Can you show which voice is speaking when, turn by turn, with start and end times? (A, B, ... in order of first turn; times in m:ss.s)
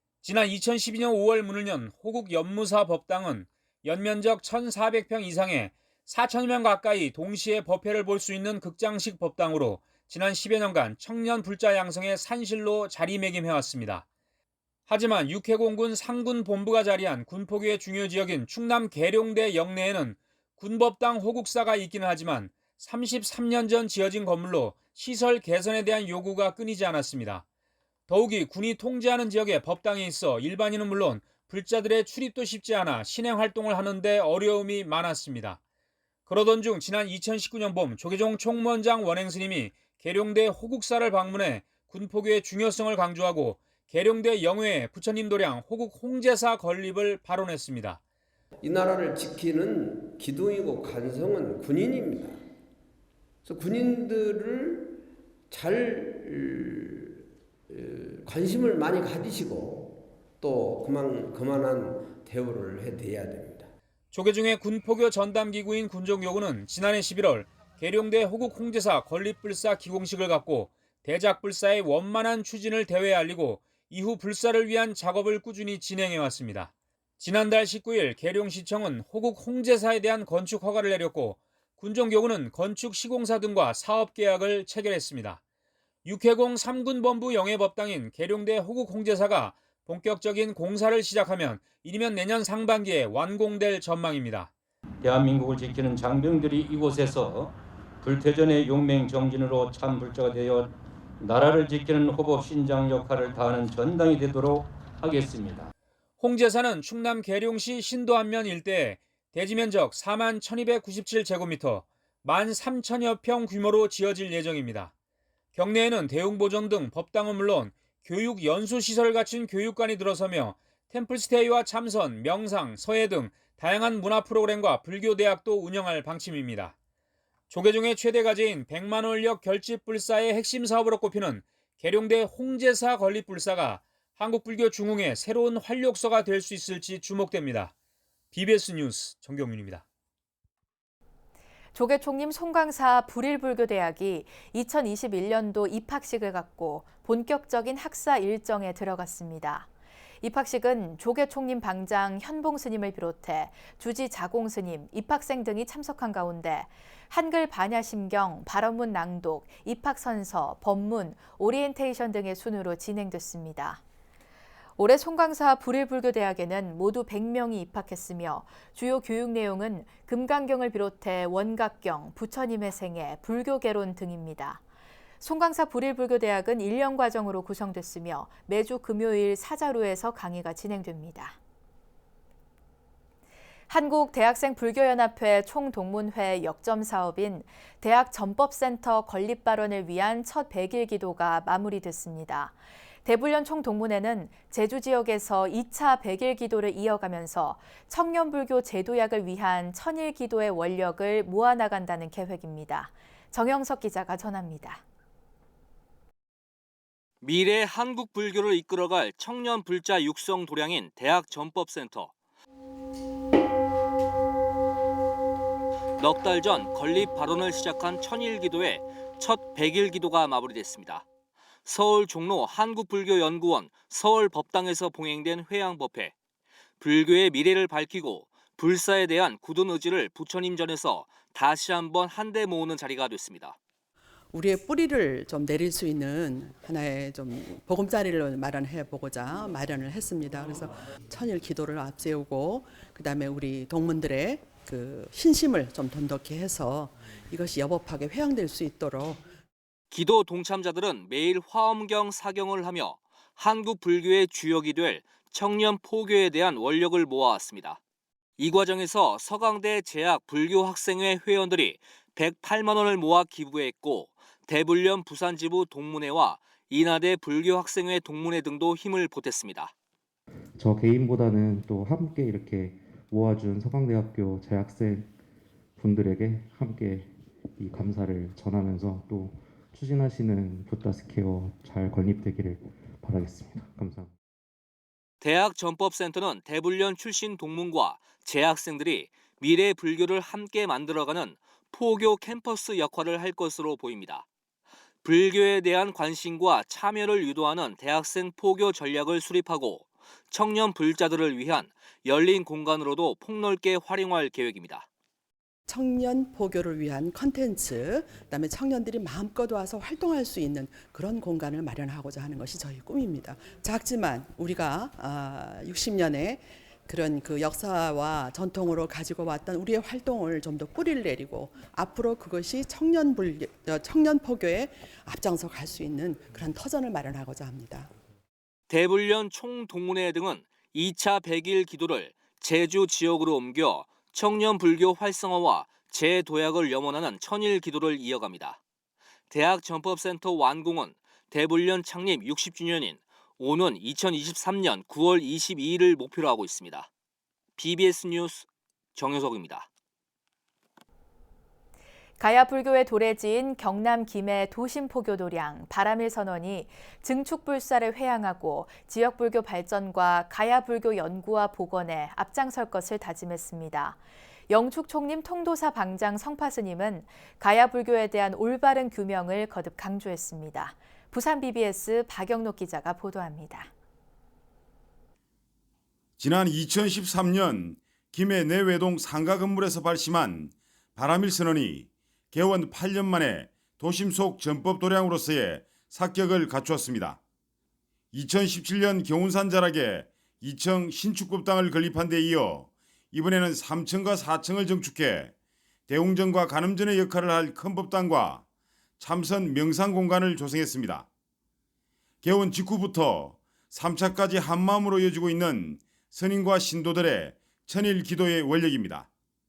0:00.2-0:14.0 A
0:14.9-0:27.4 A
0:28.1-0:35.6 A
0:36.3-0:48.0 A
0:48.6-0:52.4 B
0:53.4-0:57.2 B
0:57.7-1:03.7 B
1:04.1-1:25.4 A
1:26.0-1:34.5 A
1:35.0-1:45.7 C
1:46.2-1:54.9 A
1:55.5-2:06.7 A
2:07.5-2:17.7 A
2:18.3-2:19.8 A
2:21.7-2:29.7 D
2:30.2-2:43.8 D
2:44.8-2:54.6 D
2:55.2-3:01.4 D
3:03.7-3:24.8 D
3:27.2-3:32.1 E
3:36.0-3:41.0 E
3:41.6-3:46.1 E
3:46.8-3:53.5 E
3:54.3-4:09.2 F
4:09.9-4:17.8 E
4:18.4-4:29.7 E
4:30.6-4:35.1 G
4:35.8-4:44.1 G
4:45.2-4:54.2 E
4:55.0-5:04.8 E
5:05.7-5:27.9 F
5:28.7-5:38.6 E
5:39.3-5:46.9 E
5:47.6-5:49.7 E
5:52.2-6:13.7 D
6:16.2-6:27.2 H
6:28.1-6:35.3 H
6:35.9-6:38.4 H
6:39.0-6:41.0 H
6:42.2-6:49.1 H